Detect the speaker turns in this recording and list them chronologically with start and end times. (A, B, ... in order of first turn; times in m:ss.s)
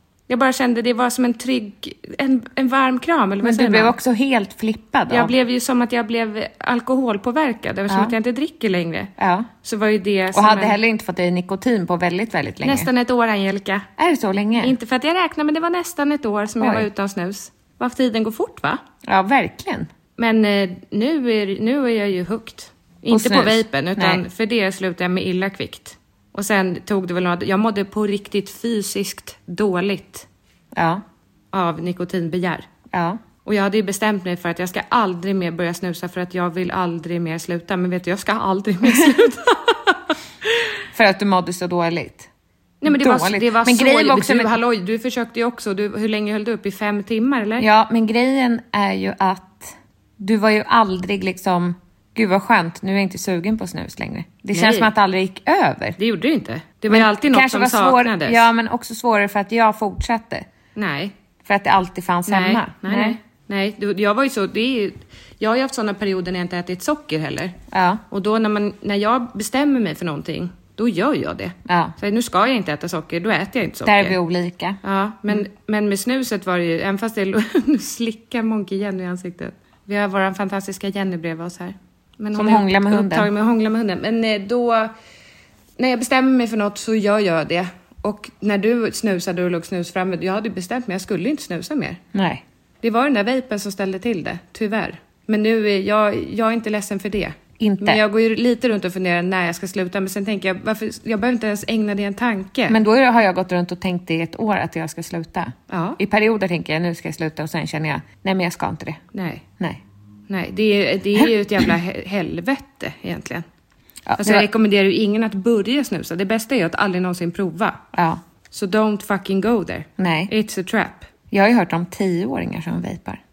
0:00.3-0:03.9 A
0:03.4-0:05.3 B
0:05.1-0:09.1 A
0:07.9-0:08.2 B
0:09.2-0:09.5 B
0:09.6-0:10.8 A
0:10.3-0:12.9 B
0:12.6-0:13.9 A
0:14.0-0:14.8 B
0:14.6-0:18.8 A
0:16.6-0:16.9 B
0:19.0-0:19.9 B
0:20.2-0:30.3 A
0:23.1-0:24.2 B
0:30.7-0:31.0 B
0:31.5-0:32.7 A
0:32.9-0:33.2 B
0:33.4-0:40.0 A
0:40.9-0:42.3 B
0:42.8-0:47.7 A
0:42.9-0:44.6 B
0:47.6-0:56.0 B
0:54.5-0:54.9 A
0:56.0-0:58.4 A
0:56.9-1:00.5 B
1:00.8-1:01.1 A
1:01.4-1:03.2 B
1:02.3-1:07.6 A
1:07.7-1:08.0 B
1:08.1-1:14.2 A
1:11.7-1:12.0 B
1:13.8-1:14.8 B
1:14.8-1:24.9 A
1:22.3-1:23.3 B
1:25.8-1:32.0 A
1:32.1-1:32.4 B
1:32.8-1:42.8 A
1:37.6-1:38.0 B
1:42.7-1:49.0 B
1:45.7-1:46.0 A
1:49.1-1:49.4 A
1:50.3-1:53.4 A
1:54.1-1:54.5 B
1:54.2-1:57.8 A
1:57.9-1:58.2 B
1:58.5-2:01.1 A
2:00.0-2:00.3 B
2:01.3-2:03.2 B